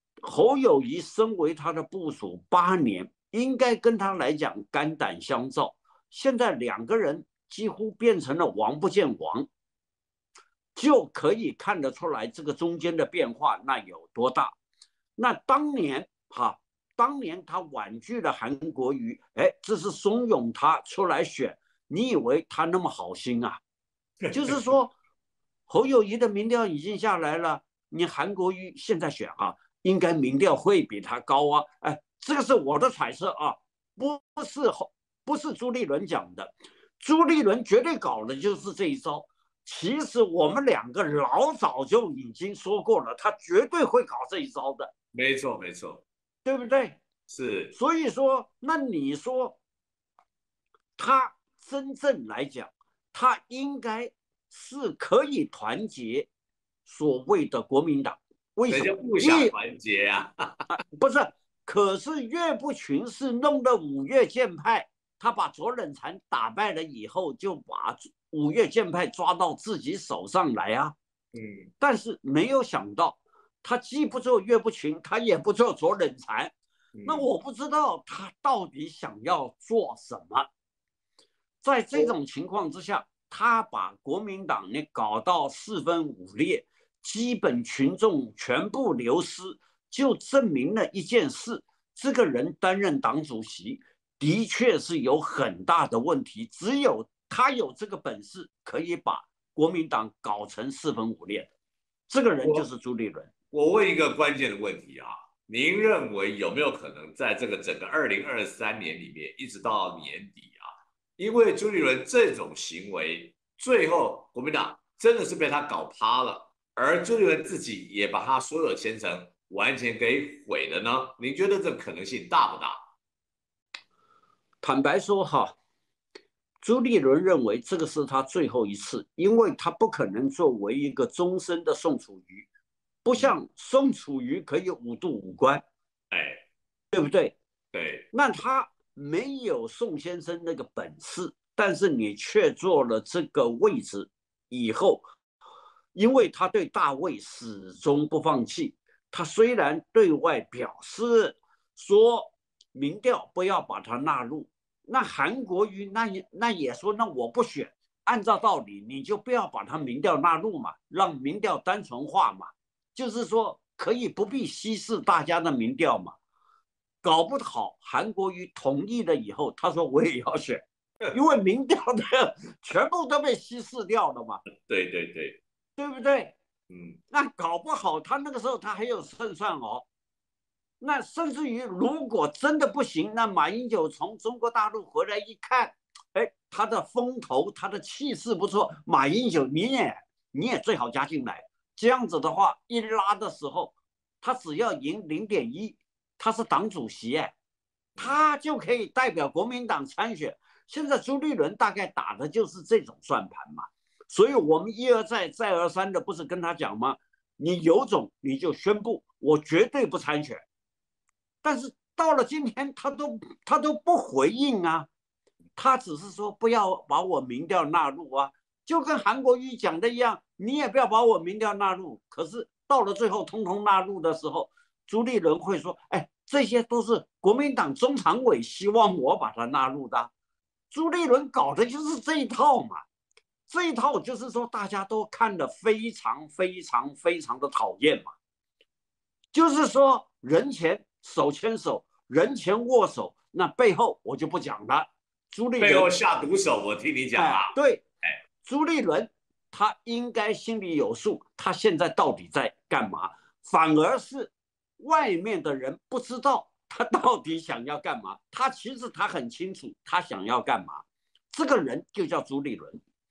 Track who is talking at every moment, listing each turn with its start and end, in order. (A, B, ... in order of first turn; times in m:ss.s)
0:00.2-0:09.5 A
0:10.7-0:14.6 A
0:15.2-0:23.6 A
0:24.3-0:24.9 A
0:25.7-0:44.9 A
0:45.1-0:46.0 B
0:46.4-0:47.0 A
0:47.3-0:47.7 B
0:47.7-0:49.6 A
0:51.0-0:56.3 A
0:56.8-0:59.5 A
0:58.7-1:00.8 B
1:00.9-1:10.9 A
1:11.3-1:11.7 B
1:11.8-1:16.5 A
1:16.9-1:17.3 B
1:17.0-1:20.5 A
1:21.6-1:41.5 A
1:42.1-1:43.3 A
1:43.5-2:02.8 B
2:04.6-2:05.6 A
2:06.6-2:12.5 A
2:13.0-2:15.6 A
2:16.1-2:16.4 B
2:16.9-2:17.4 A
2:17.7-2:18.0 B
2:18.1-2:25.0 A
2:25.9-2:46.2 A
2:47.0-2:54.4 A
2:54.6-2:55.4 B
2:55.8-2:56.4 A
2:56.7-2:57.0 B
2:57.1-2:59.8 A
3:00.8-3:17.3 A
3:18.0-3:30.4 A
3:31.4-3:34.9 A
3:35.6-3:50.1 A
3:50.7-3:52.8 A
3:53.5-3:58.1 A
3:59.3-4:05.9 A
4:05.6-4:07.5 B
4:07.1-4:07.8 A
4:08.4-4:22.8 A